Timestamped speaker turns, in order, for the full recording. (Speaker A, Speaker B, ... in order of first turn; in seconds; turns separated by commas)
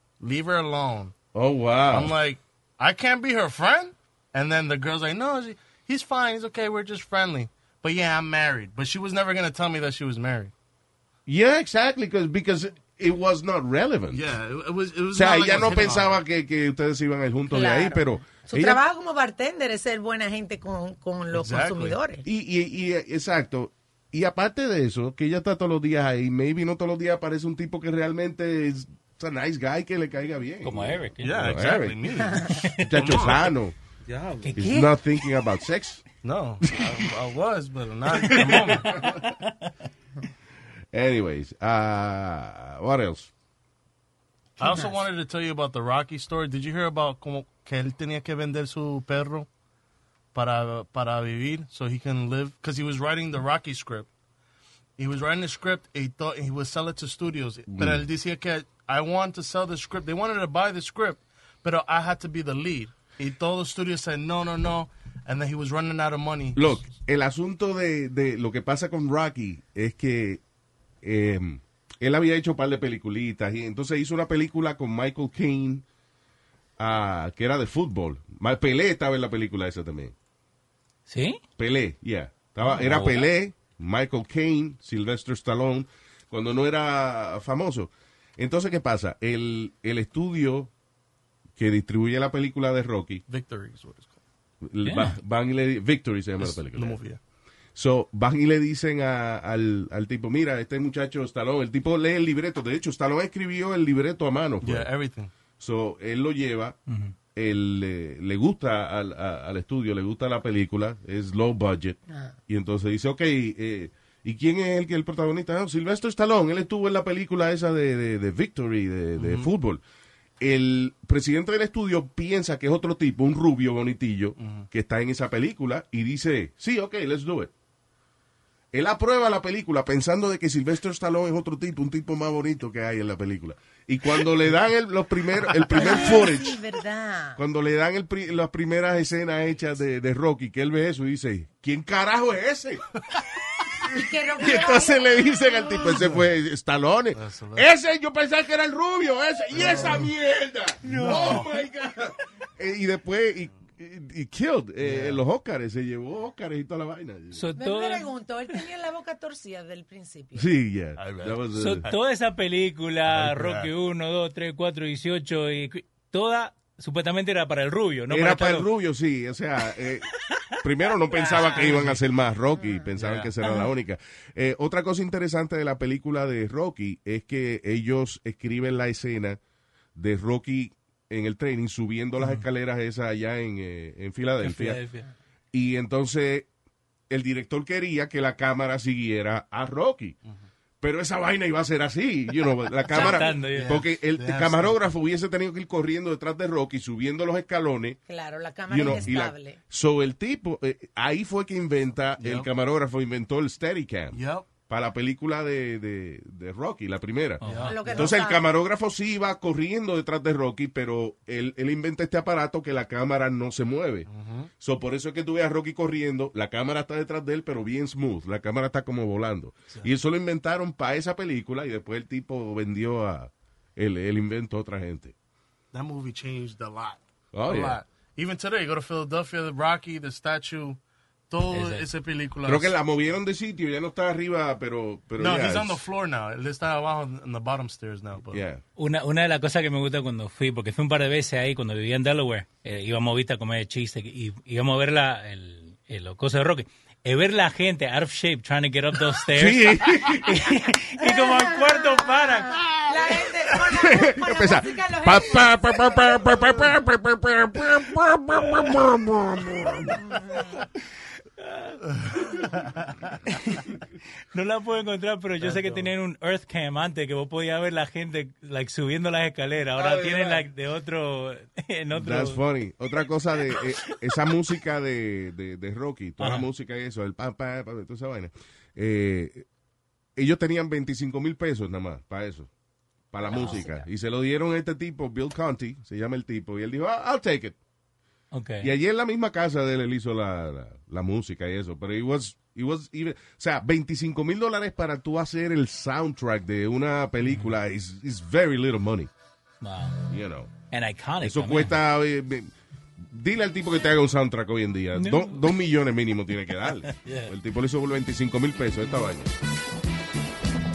Speaker A: 0.2-1.1, Speaker B: 1.3-2.1, Speaker A: 1.9-10.5, Speaker B: 11.2-14.2, Speaker A: 14.1-16.2, Speaker B: 15.1-18.8, Speaker C: 17.5-22.2, Speaker A: 21.3-22.0, Speaker B: 22.2-33.8, Speaker D: 30.6-31.4, Speaker A: 31.2-33.5, Speaker D: 32.5-32.9, Speaker A: 34.0-34.6, Speaker D: 34.4-35.2, Speaker B: 34.5-36.0, Speaker A: 36.2-39.1, Speaker B: 36.6-37.0, Speaker B: 38.2-39.0, Speaker D: 38.9-39.7, Speaker B: 40.9-43.3, Speaker A: 44.6-49.5, Speaker A: 50.3-54.1, Speaker A: 55.0-66.8, Speaker B: 57.7-58.0, Speaker B: 66.5-70.4, Speaker B: 71.0-75.8, Speaker B: 76.8-80.1, Speaker D: 81.1-81.4, Speaker B: 81.6-90.7, Speaker D: 82.7-83.3, Speaker B: 91.6-93.2, Speaker A: 93.3-94.2, Speaker B: 94.7-97.0, Speaker D: 94.8-95.2, Speaker A: 96.4-97.2, Speaker B: 97.7-104.9, Speaker A: 104.6-105.3, Speaker B: 105.6-106.8, Speaker D: 106.9-107.1, Speaker B: 107.3-119.8, Speaker A: 119.2-119.5, Speaker B: 120.4-127.5, Speaker A: 124.4-124.7, Speaker B: 128.7-136.6, Speaker C: 135.7-137.4, Speaker B: 137.4-142.8, Speaker C: 143.9-146.0, Speaker B: 144.4-157.4, Speaker A: 147.1-147.7, Speaker A: 149.5-150.0, Speaker D: 150.8-151.4, Speaker A: 154.8-155.2, Speaker D: 157.3-158.1, Speaker C: 157.6-160.5, Speaker B: 160.3-161.9, Speaker A: 161.0-161.4, Speaker D: 161.5-168.7, Speaker A: 163.1-163.7, Speaker B: 168.1-170.1, Speaker B: 170.6-179.4, Speaker D: 171.1-172.0, Speaker B: 179.9-184.9, Speaker D: 184.4-185.1, Speaker B: 185.5-186.5, Speaker B: 187.1-190.2, Speaker B: 190.8-198.0, Speaker D: 192.9-193.7, Speaker A: 193.4-194.8, Speaker C: 198.1-199.6, Speaker B: 198.7-214.1, Speaker A: 202.2-202.5, Speaker A: 204.1-204.5, Speaker D: 207.4-207.8, Speaker A: 207.4-208.1, Speaker C: 207.7-208.4, Speaker A: 214.1-214.5, Speaker B: 214.6-225.1, Speaker A: 225.7-230.8, Speaker B: 227.3-227.8, Speaker A: 231.3-232.7, Speaker D: 231.5-231.8, Speaker B: 232.4-235.8, Speaker A: 235.2-238.4, Speaker B: 238.3-238.6, Speaker D: 238.8-252.6, Speaker B: 249.3-250.4, Speaker C: 251.0-256.3, Speaker B: 252.6-260.0, Speaker D: 258.4-258.7, Speaker C: 259.9-260.6, Speaker D: 261.4-262.3, Speaker D: 264.3-272.4, Speaker A: 265.4-265.9, Speaker A: 269.8-270.4, Speaker B: 271.9-279.4, Speaker D: 273.5-274.1, Speaker D: 276.2-276.5, Speaker B: 280.1-282.5, Speaker B: 283.1-287.6, Speaker C: 283.2-283.9, Speaker D: 288.3-288.7, Speaker B: 288.6-299.1, Speaker D: 297.2-297.5, Speaker D: 299.6-300.0, Speaker B: 300.1-300.5, Speaker D: 300.7-301.8, Speaker B: 301.2-302.5, Speaker B: 303.1-309.3, Speaker D: 304.9-305.5, Speaker D: 306.9-307.3